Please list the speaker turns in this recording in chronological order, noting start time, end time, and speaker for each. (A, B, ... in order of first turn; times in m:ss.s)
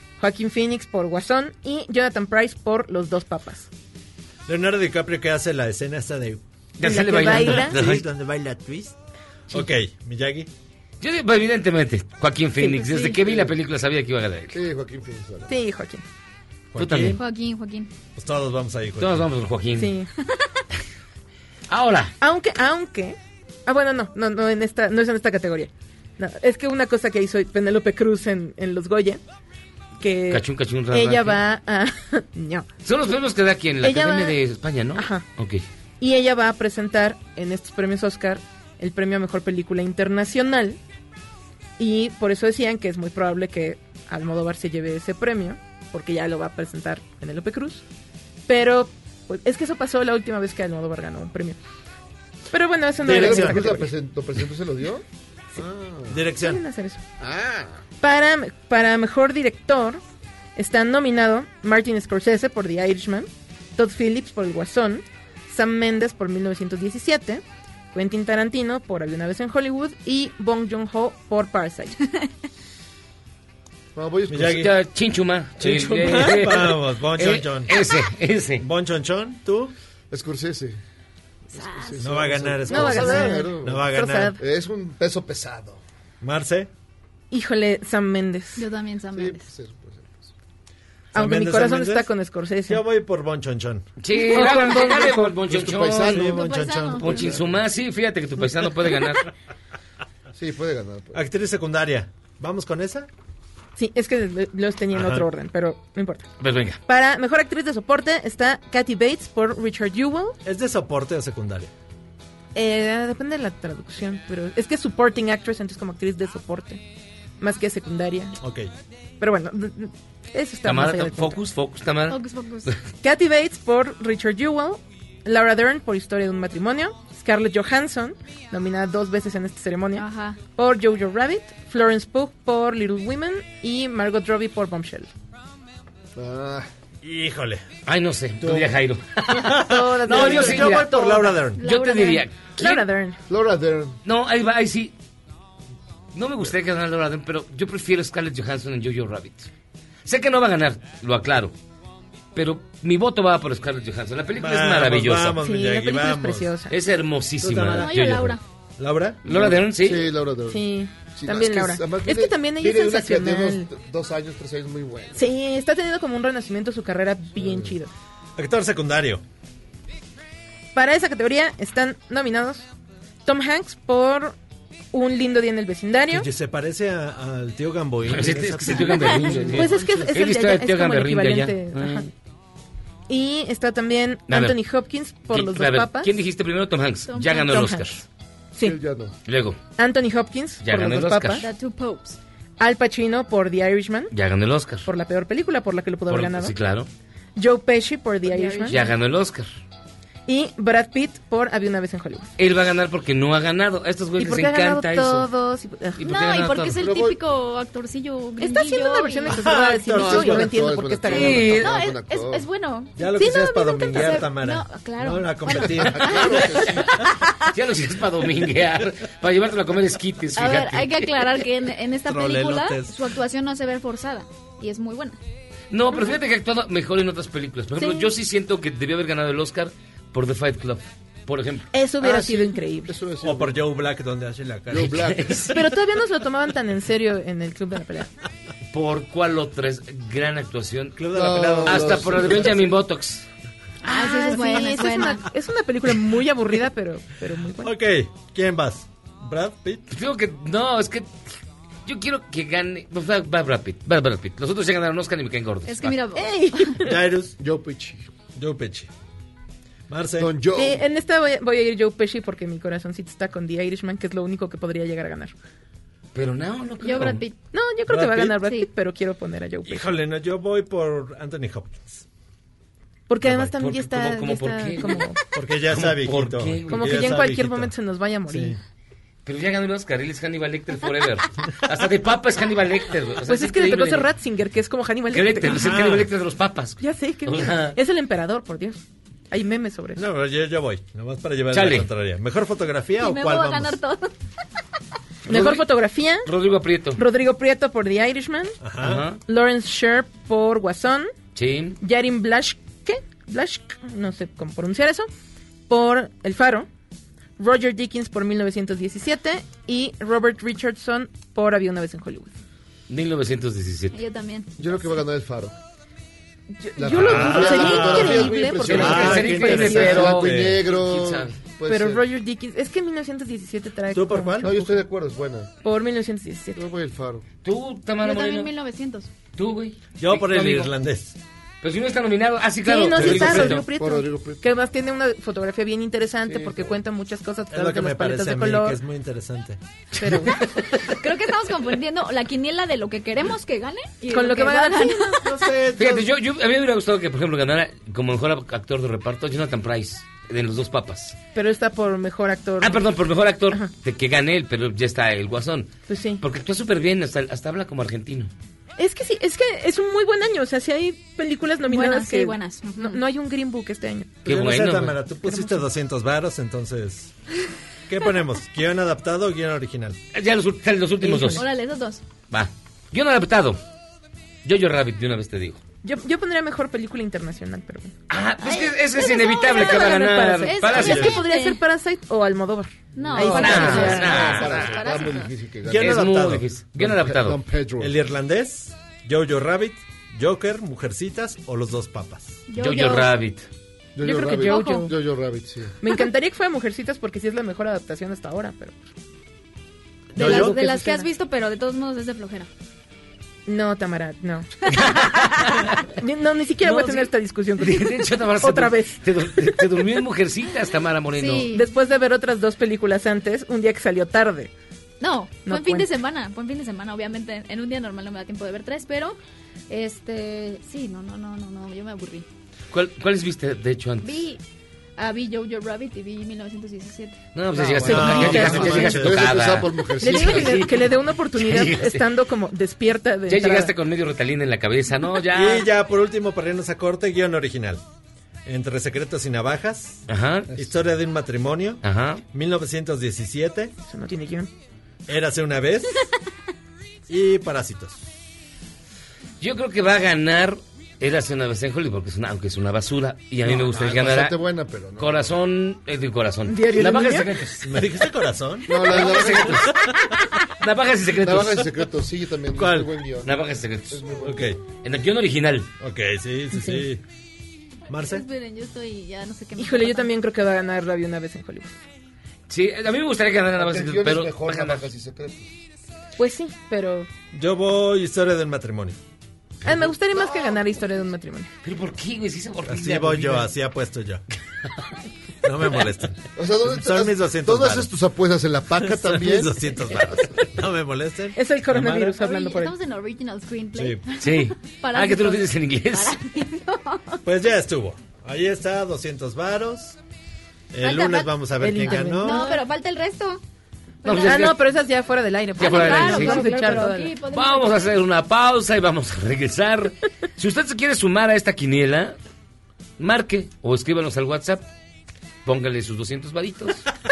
0:00.2-0:03.7 A
0:04.5-0:06.4 B
0:06.8-0:08.0 C
0:06.8-0:07.8 A
0:07.1-0:09.0 B
0:09.5-0:10.5 B
0:11.0-0:14.6 C
0:12.6-0:13.1 D
0:13.2-0:13.5 E
0:14.5-0:15.5 E
0:15.5-0:16.0 A
0:16.7-0:17.2 B
0:16.8-0:17.2 C
0:17.2-0:17.9 D
0:18.2-0:19.3 B
0:19.0-0:19.9 C
0:19.8-0:20.1 A
0:21.7-0:22.2 C
0:22.2-0:29.2 A
0:30.0-0:32.7 A
0:30.3-0:31.4 C
0:32.8-0:35.6 C
0:33.8-0:34.4 A
0:35.0-0:35.2 A
0:36.0-0:40.8 A
0:41.8-0:47.8 A
0:48.5-0:51.6 A
0:52.5-0:53.9 A
0:53.0-0:53.8 B
0:53.0-0:55.0 E
0:55.6-0:56.2 E
0:56.1-0:56.6 B
0:56.4-0:57.0 A
0:57.2-0:57.8 E
0:58.0-1:00.0 A
1:00.6-1:12.0 A
1:14.0-1:14.7 E
1:14.3-1:14.7 B
1:14.5-1:18.6 C
1:15.6-1:17.8 B
1:18.6-1:19.7 B
1:20.1-1:20.8 E
1:21.5-1:25.8 E
1:21.6-1:22.0 D
1:22.0-1:24.4 B
1:22.7-1:24.4 A
1:26.2-1:26.7 B
1:27.3-1:28.6 A
1:28.6-1:29.4 D
1:29.2-1:30.3 E
1:31.1-1:32.1 B
1:31.1-1:32.8 A
1:32.7-1:33.9 B
1:34.0-1:36.4 C
1:34.3-1:35.3 A
1:34.7-1:36.4 E
1:36.0-1:37.3 B
1:36.3-1:37.4 D
1:37.0-1:39.3 C
1:37.1-1:37.5 E
1:40.4-1:41.2 E
1:41.1-1:43.1 B
1:43.8-1:46.3 A
1:44.9-1:45.3 B
1:46.4-1:46.8 C
1:46.9-1:50.4 A
1:50.4-1:51.7 B
1:52.6-1:56.8 A
1:57.4-1:58.4 A
1:58.4-1:58.7 B
1:59.2-2:01.4 A
2:00.6-2:02.8 C
2:02.1-2:02.7 D
2:03.0-2:10.0 A
2:10.0-2:10.4 D
2:10.6-2:15.1 A
2:16.2-2:16.7 E
2:17.0-2:17.6 B
2:17.9-2:22.8 C
2:18.4-2:18.7 B
2:19.3-2:21.6 B
2:19.5-2:21.4 A
2:21.6-2:22.2 D
2:22.6-2:23.2 A
2:23.3-2:24.0 E
2:24.0-2:24.9 C
2:26.1-2:29.5 C
2:30.0-2:31.5 C
2:32.4-2:35.4 C
2:34.4-2:36.5 B
2:35.4-2:36.7 A
2:36.7-2:38.4 C
2:37.4-2:38.2 B
2:37.7-2:38.4 D
2:38.8-2:39.2 B
2:39.2-2:40.1 C
2:39.3-2:45.2 E
2:40.5-2:43.7 A
2:45.2-2:47.9 A
2:47.4-2:47.8 E
2:48.4-2:49.2 B
2:50.8-2:52.7 A
2:53.2-2:54.4 A
2:54.9-2:56.3 A
2:56.1-2:59.8 B
2:58.1-3:02.1 C
2:59.3-2:59.7 E
2:59.5-3:02.1 A
3:03.1-3:06.1 A
3:04.3-3:04.6 C
3:05.3-3:08.0 C
3:07.1-3:07.7 D
3:07.5-3:07.9 A
3:08.6-3:09.2 E
3:09.3-3:09.6 C
3:09.8-3:11.5 A
3:10.6-3:11.5 C
3:11.4-3:12.2 D
3:12.6-3:14.1 A
3:14.1-3:14.9 C
3:14.8-3:16.5 A
3:16.1-3:16.9 C
3:17.4-3:18.8 A
3:18.2-3:19.0 D
3:18.7-3:19.5 C
3:20.3-3:22.3 A
3:22.4-3:25.3 C
3:24.2-3:26.0 A
3:26.0-3:26.8 C
3:26.0-3:29.4 D
3:26.8-3:27.2 E
3:28.4-3:31.5 A
3:29.3-3:30.5 B
3:29.9-3:32.5 E
3:31.1-3:31.8 C
3:31.4-3:32.9 D
3:33.0-3:36.2 B
3:33.2-3:34.1 A
3:33.8-3:37.1 D
3:35.5-3:36.9 E
3:37.5-3:41.3 C
3:40.4-3:45.2 D
3:42.0-3:43.2 B
3:45.7-3:51.7 C
3:47.8-3:48.1 A
3:51.7-3:52.9 A
3:52.0-3:53.6 E
3:53.2-3:55.2 B
3:54.7-3:55.6 E
3:55.0-3:55.6 C
3:55.5-3:58.1 A
3:58.7-4:03.3 C
4:01.0-4:02.6 B
4:01.1-4:02.6 E
4:03.8-4:05.3 D
4:03.8-4:07.8 A
4:07.6-4:09.8 B
4:09.9-4:11.3 C
4:11.8-4:16.0 C
4:15.6-4:16.8 D
4:16.2-4:17.0 A
4:16.8-4:17.4 B
4:17.4-4:18.1 E
4:18.4-4:18.9 B
4:19.9-4:20.3 B
4:20.2-4:20.8 E
4:20.6-4:25.3 A
4:26.1-4:27.2 C
4:26.8-4:27.4 D
4:27.5-4:29.9 A
4:27.9-4:28.4 B
4:28.4-4:28.7 D
4:29.7-4:32.0 B
4:33.1-4:35.2 A
4:33.2-4:35.1 C
4:35.4-4:37.7 B
4:35.7-4:37.0 C
4:36.7-4:38.6 A
4:38.3-4:38.6 B
4:39.2-4:44.1 C
4:43.3-4:45.6 A
4:45.1-4:47.8 C
4:45.5-4:46.1 B
4:46.8-4:50.0 A
4:50.0-4:53.8 B
4:51.5-4:51.9 C
4:53.0-4:54.1 D
4:55.3-4:55.7 C
4:55.3-4:56.3 A
4:56.2-4:57.0 C
4:57.0-4:58.6 A
4:58.6-4:59.0 B
4:58.8-4:59.2 C
4:59.3-5:01.1 A
5:01.4-5:01.8 C
5:01.8-5:05.1 A
5:05.7-5:06.7 A
5:07.4-5:12.3 A
5:12.9-5:14.0 C
5:13.9-5:14.5 D
5:14.6-5:15.6 E
5:16.6-5:20.1 A
5:16.8-5:22.0 E
5:16.9-5:20.6 B
5:18.6-5:21.3 C
5:21.7-5:24.8 A
5:23.9-5:24.6 B
5:24.4-5:25.5 E
5:25.6-5:26.6 A
5:26.5-5:27.3 E
5:27.4-5:28.5 C
5:28.0-5:29.1 D
5:29.4-5:30.7 C
5:30.0-5:31.2 B
5:31.6-5:33.7 C
5:32.6-5:38.8 A
5:33.0-5:33.6 B
5:33.2-5:34.4 E
5:36.3-5:36.8 E
5:37.5-5:39.6 B
5:40.0-5:40.4 A
5:40.3-5:40.6 C
5:40.8-5:45.2 D
5:44.1-5:45.2 A
5:45.2-5:46.1 B
5:45.8-5:51.2 C
5:51.4-5:52.8 A
5:52.6-5:58.3 C
5:55.9-5:56.2 A
5:58.8-6:04.1 A
6:01.7-6:03.0 D
6:04.2-6:05.0 C
6:04.2-6:07.1 B
6:05.3-6:05.7 A
6:07.9-6:10.0 B
6:10.1-6:11.5 C
6:11.0-6:11.4 A
6:11.3-6:12.0 D
6:12.3-6:13.6 C
6:14.4-6:15.6 C
6:15.8-6:17.9 A
6:18.1-6:21.2 C
6:18.5-6:19.8 D
6:18.9-6:24.2 A
6:20.4-6:21.6 D
6:20.8-6:21.2 B
6:23.0-6:25.3 D
6:23.0-6:26.1 E
6:23.2-6:24.8 C
6:25.6-6:26.5 B
6:25.7-6:27.4 C
6:26.8-6:27.9 E
6:27.8-6:32.4 B
6:32.5-6:33.1 D
6:32.6-6:33.5 C
6:34.0-6:35.8 E
6:34.0-6:35.0 A
6:34.5-6:34.8 D
6:35.8-6:38.8 A
6:40.1-6:42.5 D
6:40.2-6:40.6 B
6:40.2-6:41.1 A
6:43.5-6:44.7 A
6:44.7-6:45.9 C
6:46.0-6:49.6 A
6:46.6-6:51.5 C
6:51.1-6:51.7 D
6:51.5-6:54.5 A
6:55.0-6:59.2 D
6:55.5-6:55.9 A
6:59.7-7:02.3 D
7:02.7-7:04.3 C
7:04.0-7:04.4 D
7:05.0-7:07.2 D
7:07.3-7:12.1 C
7:07.6-7:10.6 E
7:07.8-7:08.9 A
7:07.8-7:09.4 B
7:10.0-7:13.7 A
7:13.3-7:15.7 C
7:15.3-7:17.8 B
7:18.4-7:21.8 B
7:20.1-7:20.5 C
7:21.8-7:22.2 C
7:22.3-7:23.7 B
7:23.9-7:24.5 A
7:25.1-7:26.0 B
7:27.1-7:28.0 B
7:29.4-7:34.4 C
7:33.5-7:35.3 E
7:35.0-7:37.7 C
7:36.5-7:37.3 A
7:37.6-7:40.0 B
7:38.7-7:39.7 E
7:38.7-7:41.7 C
7:41.2-7:43.3 E
7:42.5-7:42.9 B
7:43.2-7:44.0 C
7:43.9-7:44.6 E
7:44.2-7:44.6 B
7:44.8-7:45.7 C
7:45.8-7:47.0 B
7:46.5-7:46.8 A
7:47.9-7:48.2 B
7:48.0-7:50.1 D
7:49.6-7:51.8 A
7:52.5-7:54.9 C
7:53.6-7:55.5 E
7:56.2-7:57.1 A
7:57.3-7:59.0 B
7:59.6-8:01.5 A
8:01.6-8:03.5 C
8:02.7-8:04.2 B
8:05.4-8:07.9 B
8:06.4-8:10.2 E
8:08.8-8:12.2 B
8:11.4-8:12.7 A
8:12.2-8:17.2 D
8:13.7-8:14.0 B
8:14.2-8:16.2 C
8:17.2-8:20.0 B
8:20.7-8:22.4 B
8:20.8-8:23.4 D
8:21.6-8:22.6 A
8:24.0-8:24.5 D
8:24.0-8:24.6 C
8:24.2-8:27.2 A
8:25.6-8:27.9 D
8:25.6-8:32.2 C
8:33.0-8:34.6 C
8:35.4-8:36.9 C